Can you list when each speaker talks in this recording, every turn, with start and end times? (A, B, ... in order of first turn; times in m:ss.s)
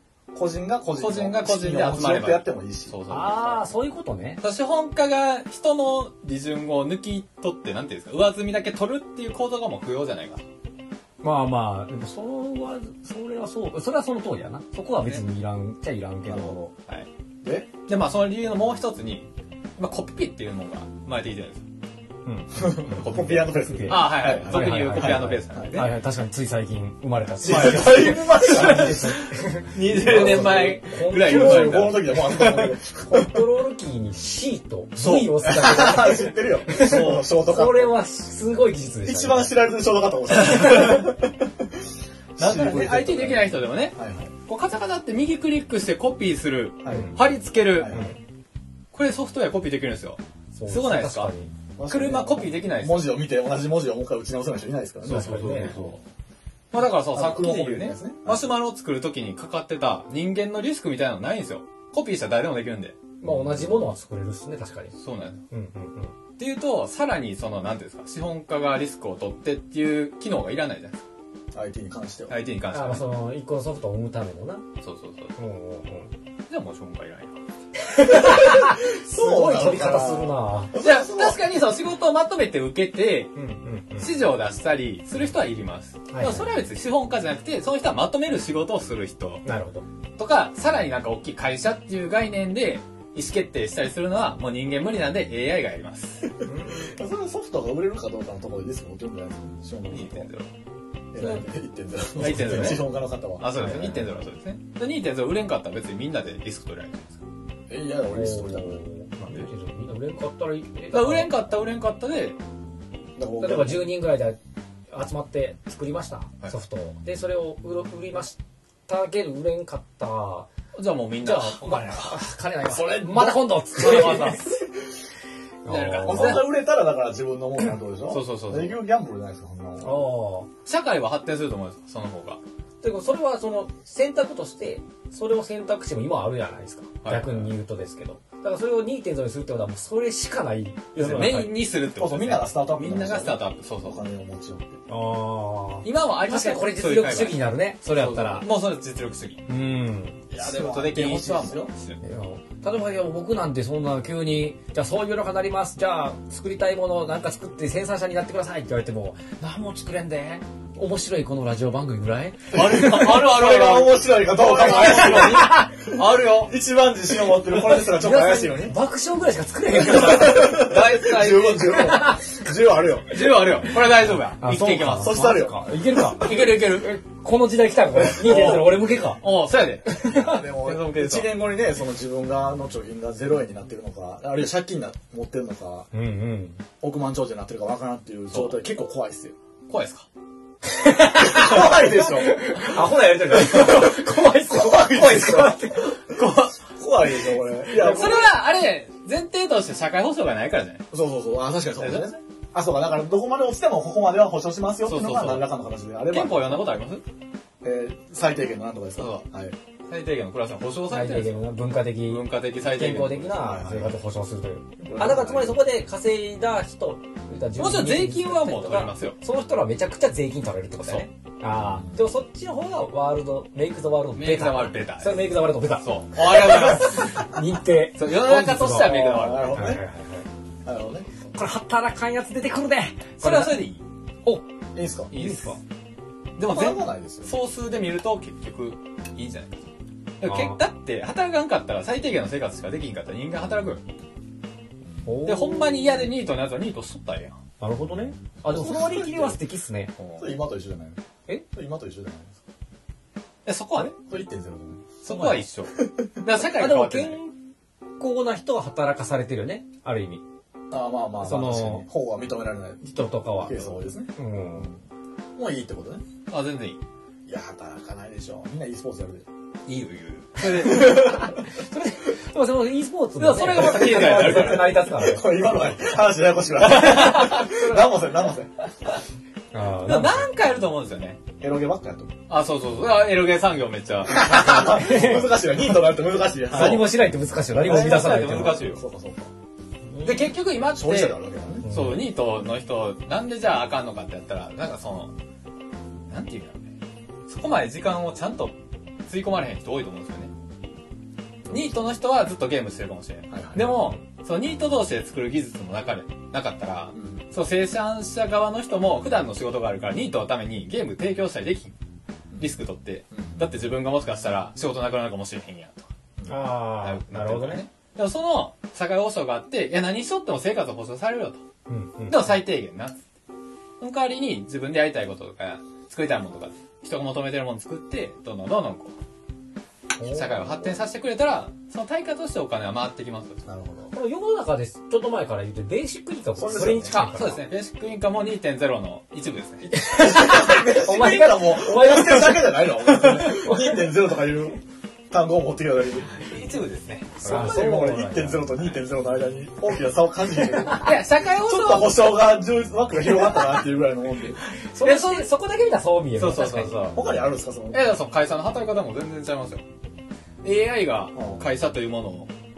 0:00.3-0:03.0 A
0:01.0-0:03.7 B
0:03.1-0:04.4 C
0:04.4-0:10.4 B
0:11.2-0:16.7 C
0:14.9-0:15.2 B
0:16.3-0:16.7 A
0:17.4-0:17.7 A
0:17.8-0:21.6 B
0:22.2-0:31.9 C
0:22.5-0:25.9 A
0:22.9-0:25.9 B
0:27.4-0:29.2 A
0:27.4-0:32.8 B
0:29.8-0:33.4 A
0:33.0-0:39.6 C
0:35.0-0:35.4 B
0:35.4-0:37.9 A
0:36.7-0:37.3 B
0:39.0-0:41.7 A
0:40.5-0:41.1 B
0:42.4-0:44.3 A
0:42.4-0:48.0 B
0:46.8-0:47.1 A
0:46.9-0:47.2 C
0:47.7-0:48.2 A
0:47.9-0:48.2 C
0:48.9-0:51.3 B
0:50.5-0:51.5 C
0:51.8-0:56.0 A
0:51.9-0:53.1 B
0:55.0-0:55.8 C
0:55.1-0:56.0 B
0:56.7-1:03.0 B
0:56.8-0:58.5 A
1:03.2-1:05.0 C
1:05.0-1:05.4 B
1:05.5-1:06.1 C
1:06.4-1:11.0 B
1:11.5-1:12.4 A
1:12.3-1:13.1 B
1:12.7-1:14.6 C
1:14.8-1:15.3 B
1:15.4-1:16.1 C
1:16.5-1:17.4 B
1:17.8-1:20.8 C
1:18.0-1:21.4 A
1:20.8-1:23.3 B
1:23.3-1:24.1 C
1:24.0-1:29.4 B
1:26.1-1:26.4 C
1:29.4-1:29.8 C
1:30.2-1:36.3 B
1:36.4-1:40.3 A
1:36.4-1:36.9 C
1:39.9-1:40.5 B
1:41.1-1:44.0 A
1:42.2-1:47.2 B
1:42.2-1:42.8 C
1:43.5-1:44.1 C
1:47.7-1:48.8 A
1:48.1-1:51.4 C
1:50.9-1:52.4 B
1:53.2-1:53.9 A
1:53.4-1:54.4 C
1:54.9-2:00.5 C
2:00.7-2:02.2 B
2:01.2-2:04.5 C
2:02.6-2:04.5 A
2:03.8-2:04.5 B
2:05.6-2:06.4 C
2:05.7-2:06.5 B
2:06.0-2:10.1 A
2:08.1-2:08.8 B
2:09.8-2:10.5 C
2:10.6-2:12.4 B
2:12.8-2:21.5 C
2:17.0-2:17.5 B
2:21.0-2:24.0 B
2:21.9-2:24.8 A
2:24.9-2:28.5 C
2:25.8-2:29.4 B
2:29.5-2:30.2 C
2:30.3-2:31.7 A
2:30.3-2:32.0 B
2:32.0-2:42.9 C
2:42.5-2:46.6 B
2:42.5-2:48.8 A
2:44.5-2:45.7 C
2:47.7-2:50.7 C
2:49.8-2:53.3 A
2:50.1-2:52.0 B
2:51.8-2:52.2 C
2:53.1-2:55.3 B
2:54.3-2:59.2 C
2:55.0-2:56.3 A
2:56.2-2:56.9 B
2:58.1-2:58.8 A
2:58.2-3:01.4 B
2:59.8-3:00.4 C
3:00.0-3:05.9 A
3:05.9-3:06.6 C
3:06.8-3:09.3 A
3:08.3-3:08.6 B
3:09.7-3:10.1 B
3:10.6-3:16.0 C
3:11.1-3:12.7 A
3:13.3-3:18.3 A
3:16.1-3:16.6 B
3:17.6-3:20.8 B
3:20.9-3:26.6 A
3:21.8-3:22.2 B
3:24.8-3:25.5 B
3:26.1-3:27.0 B
3:27.6-3:29.6 A
3:29.0-3:29.2 B
3:29.9-3:31.5 B
3:30.9-3:50.3 C
3:32.0-3:33.5 B
3:33.4-3:34.0 A
3:34.8-3:35.6 A
3:37.6-3:39.2 B
3:40.8-3:41.1 B
3:41.6-3:42.0 A
3:44.2-3:47.2 B
3:47.9-3:49.7 B
3:48.8-3:49.8 A
3:50.6-3:51.1 A
3:51.3-3:53.6 C
3:53.2-3:53.8 B
3:54.7-3:55.1 A
3:55.1-3:55.6 B
3:55.1-3:55.6 C
3:56.4-3:59.7 B
3:56.4-3:57.3 A
4:00.2-4:03.8 B
4:00.2-4:00.6 C
4:05.0-4:06.1 C
4:05.2-4:07.4 B
4:07.6-4:09.9 C
4:08.4-4:09.4 A
4:10.0-4:10.3 B
4:10.2-4:12.4 A
4:13.4-4:14.0 B
4:14.0-4:16.1 A
4:15.0-4:17.2 B
4:16.4-4:17.4 C
4:18.0-4:20.2 C
4:20.7-4:24.8 A
4:21.2-4:21.8 C
4:22.8-4:24.7 C
4:25.4-4:26.0 A
4:26.3-4:26.8 B
4:27.2-4:29.3 A
4:29.6-4:31.4 B
4:30.4-4:35.3 C
4:33.2-4:34.8 B
4:33.5-4:38.7 A
4:36.6-4:37.9 B
4:39.5-4:40.3 C
4:39.8-4:41.2 B
4:41.4-4:42.1 A
4:42.3-4:44.8 B
4:44.0-4:46.9 A
4:44.2-4:45.5 C
4:46.5-4:48.6 C
4:46.6-4:46.9 B
4:47.6-4:49.3 A
4:47.6-4:48.8 B
4:49.9-4:50.3 C
4:50.0-4:55.1 B
4:50.6-4:51.7 A
4:51.6-4:52.1 C
4:56.1-4:56.8 B
4:57.3-4:58.5 B
4:59.0-5:00.3 B
5:01.4-5:01.8 A
5:01.5-5:11.7 B
5:03.3-5:03.7 A
5:03.6-5:03.9 C
5:06.9-5:07.2 A
5:12.4-5:15.9 B
5:13.1-5:13.4 A
5:16.2-5:16.5 A
5:16.3-5:17.6 C
5:16.7-5:21.4 B
5:21.7-5:22.3 C
5:22.1-5:23.0 B
5:23.8-5:28.9 B
5:30.0-5:30.8 C
5:30.0-5:33.4 B
5:33.4-5:33.9 A
5:33.9-5:37.4 C
5:36.4-5:37.0 A
5:36.9-5:39.7 B
5:39.6-5:42.5 C
5:39.9-5:46.2 A
5:43.2-5:43.8 C
5:46.1-5:48.8 B
5:47.2-5:48.5 C
5:47.2-5:54.4 A
5:50.7-5:52.1 B
5:54.7-5:56.9 C
5:54.8-5:55.3 B
5:56.2-5:57.0 B
5:56.9-5:58.0 A
5:57.7-5:59.6 B
6:00.4-6:02.3 B
6:01.1-6:01.4 A